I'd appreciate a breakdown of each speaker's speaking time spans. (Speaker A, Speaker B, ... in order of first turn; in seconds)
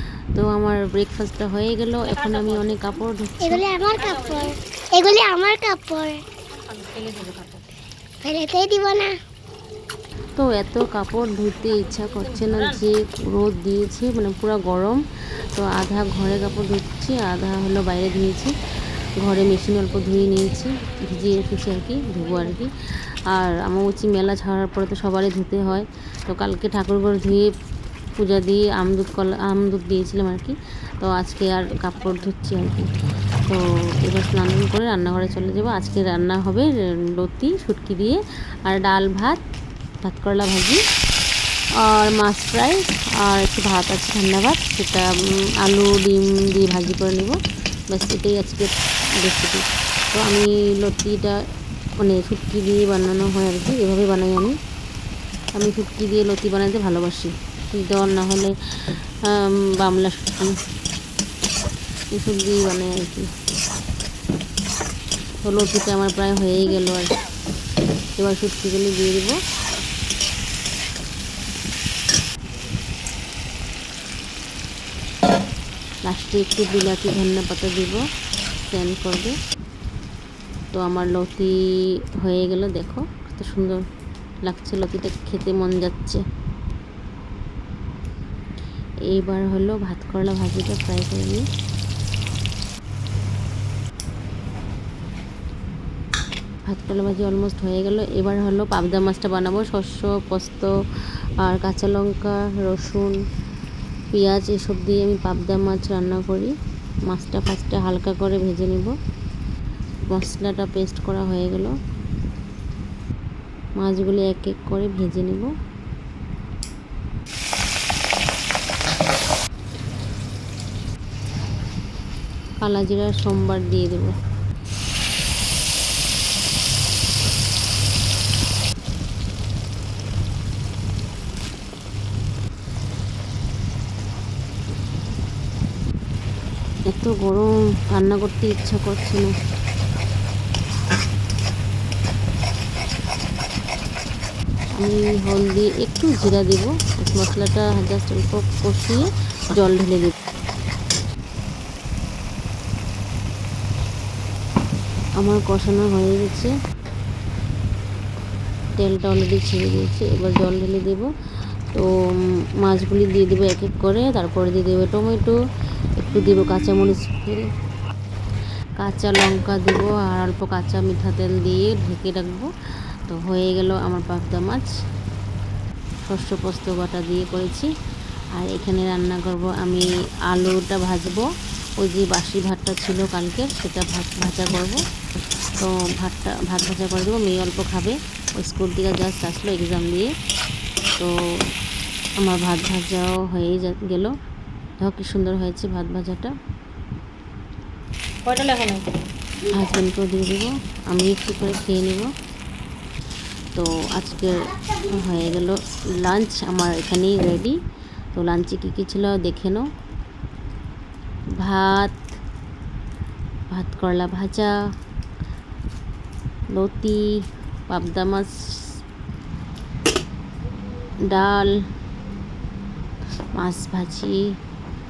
Speaker A: 0.3-3.6, 10.3-15.0, 15.5-18.5, 19.2-22.7, 23.3-27.5, 28.2-32.9, 33.5-39.4, 40.0-40.8, 41.8-45.1, 45.6-47.4, 47.9-51.4, 52.0-54.6, 55.5-58.5, 59.2-60.6, 62.1-63.3, 65.4-67.1, 68.2-69.4, 76.0-78.0, 78.7-79.4, 80.7-83.8, 84.4-86.2, 89.1-91.5, 96.7-100.7, 101.4-103.2, 104.1-106.5, 107.1-108.9, 110.1-111.8, 113.8-115.5, 122.6-124.2, 136.9-139.3, 144.8-150.2, 155.2-156.5, 158.8-161.1, 162.6-165.3, 166.0-167.5, 168.8-172.5, 173.1-174.7, 176.0-177.7, 178.3-181.3, 181.8-184.8, 185.6-190.1, 192.2-194.1, 194.8-196.3, 199.5-202.1, 203.5-207.6, 208.1-209.7, 211.4-212.0, 213.5-214.5, 216.5-217.1, 217.7-218.3, 221.1-221.6, 223.3-224.2
Speaker B: 2.0-3.0, 3.7-4.5, 6.5-7.7, 11.6-12.8, 21.0-22.6, 31.8-32.3, 198.2-198.9
Speaker C: 3.4-6.2, 8.2-9.1